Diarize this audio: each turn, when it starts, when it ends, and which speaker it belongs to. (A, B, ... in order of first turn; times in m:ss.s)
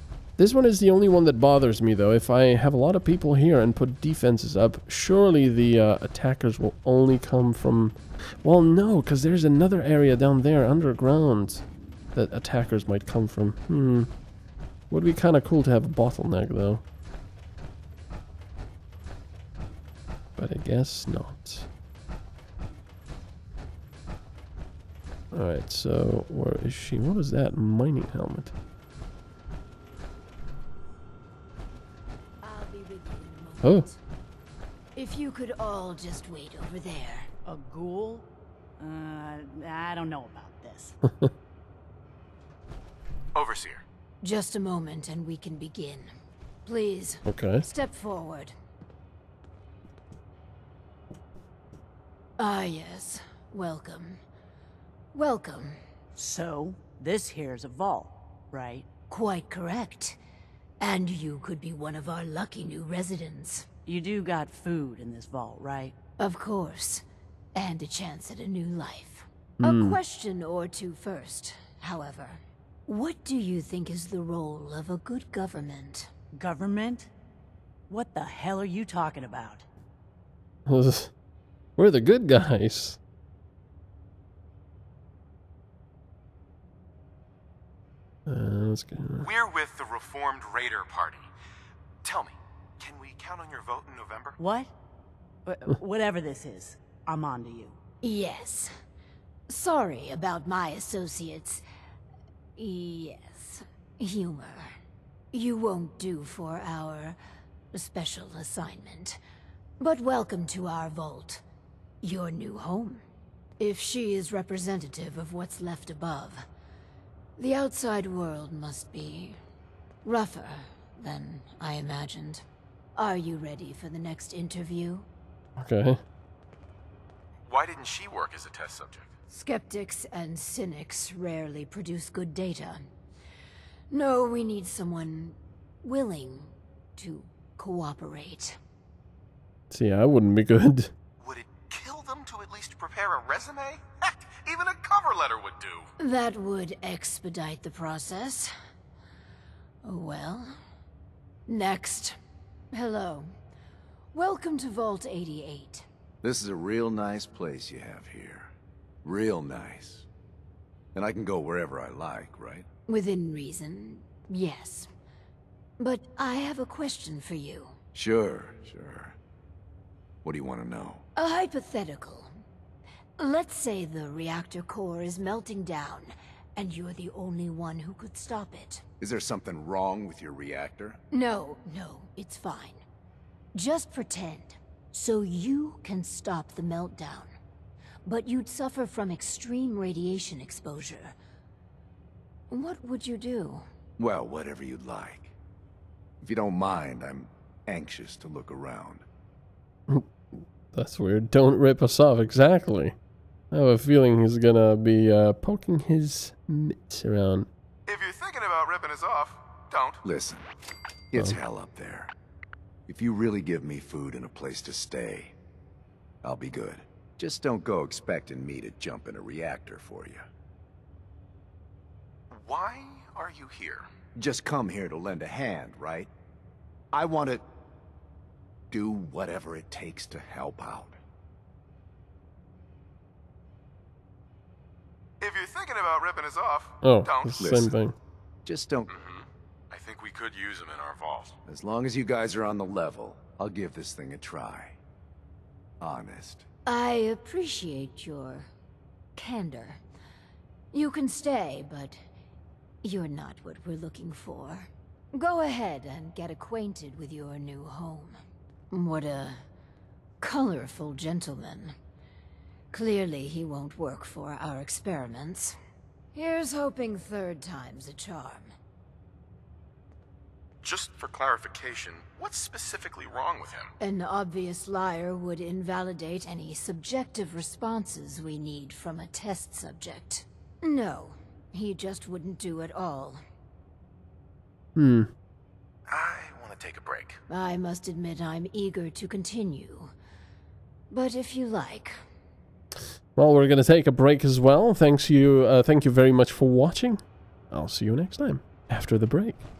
0:00.4-0:14.1 A
0:14.9-0:16.8 A
0:20.4-0:21.7 A
0:25.3-0:28.5 A
0:32.4-0:34.0 B
0:33.6-0:33.9 A
0:34.9-0:37.3 B
0:37.4-0:38.3 C
0:38.8-0:41.0 C
0:43.3-0:43.8 D
0:44.2-0:46.1 B
0:46.6-0:48.5 B
0:47.2-0:47.6 A
0:52.4-0:54.2 B
0:55.1-0:55.8 B
0:56.2-0:58.9 C
0:59.1-1:00.2 B
1:00.8-1:03.7 B
1:03.8-1:05.9 C
1:06.2-1:07.0 B
1:07.5-1:16.1 B
1:09.6-1:10.0 A
1:16.4-1:17.1 C
1:17.9-1:19.6 C
1:20.7-1:21.1 A
1:21.8-1:23.0 A
1:28.3-1:29.3 A
1:29.2-1:31.3 D
1:32.0-1:34.4 D
1:34.4-1:34.7 C
1:35.4-1:37.8 C
1:38.0-1:38.7 B
1:39.5-1:41.6 B
1:42.6-1:44.7 B
1:45.3-1:47.2 B
1:47.7-1:49.2 B
1:49.8-1:51.4 B
1:52.0-1:53.0 B
1:53.6-1:56.4 B
1:57.4-1:59.4 B
2:00.0-2:02.4 B
2:03.0-2:05.0 B
2:05.6-2:06.0 A
2:07.4-2:09.1 D
2:09.3-2:12.9 B
2:13.9-2:18.6 B
2:19.7-2:20.9 A
2:21.2-2:25.9 D
2:26.0-2:28.5 B
2:29.8-2:30.6 B
2:31.5-2:32.2 B
2:32.7-2:33.3 B
2:34.1-2:35.8 B
2:36.2-2:38.5 E
2:39.0-2:40.1 E
2:40.9-2:42.6 E
2:42.9-2:44.9 B
2:45.8-2:47.8 B
2:47.9-2:49.2 E
2:50.2-2:51.0 E
2:51.2-2:52.3 B
2:53.2-2:58.8 B
2:59.0-3:01.0 E
3:01.1-3:02.8 B
3:03.5-3:07.3 B
3:08.0-3:11.1 B
3:12.5-3:13.6 B
3:14.0-3:15.3 E
3:16.2-3:19.0 E
3:19.9-3:23.0 A
3:23.5-3:27.5 A
3:27.9-3:30.0 D
3:30.0-3:30.5 E
3:31.1-3:32.1 E
3:32.9-3:35.4 E
3:36.2-3:40.2 E
3:42.3-3:43.8 D
3:44.1-3:46.1 E
3:46.9-3:47.4 E
3:48.7-3:51.0 E
3:55.2-3:57.4 D
3:56.8-3:57.9 A
3:57.4-3:57.7 E
3:58.4-3:58.9 E
3:58.9-4:01.4 D
4:01.4-4:04.8 E
4:05.8-4:06.4 E
4:06.6-4:08.5 B
4:09.2-4:09.8 B
4:10.7-4:12.0 B
4:12.8-4:18.2 B
4:18.7-4:19.4 B
4:20.2-4:21.8 B
4:22.7-4:25.6 B
4:26.1-4:28.5 B
4:30.6-4:33.7 D
4:33.8-4:43.2 B
4:44.8-4:45.1 A
4:45.9-4:47.2 D
4:47.3-4:49.9 B
4:50.9-4:52.0 B
4:53.2-4:59.4 A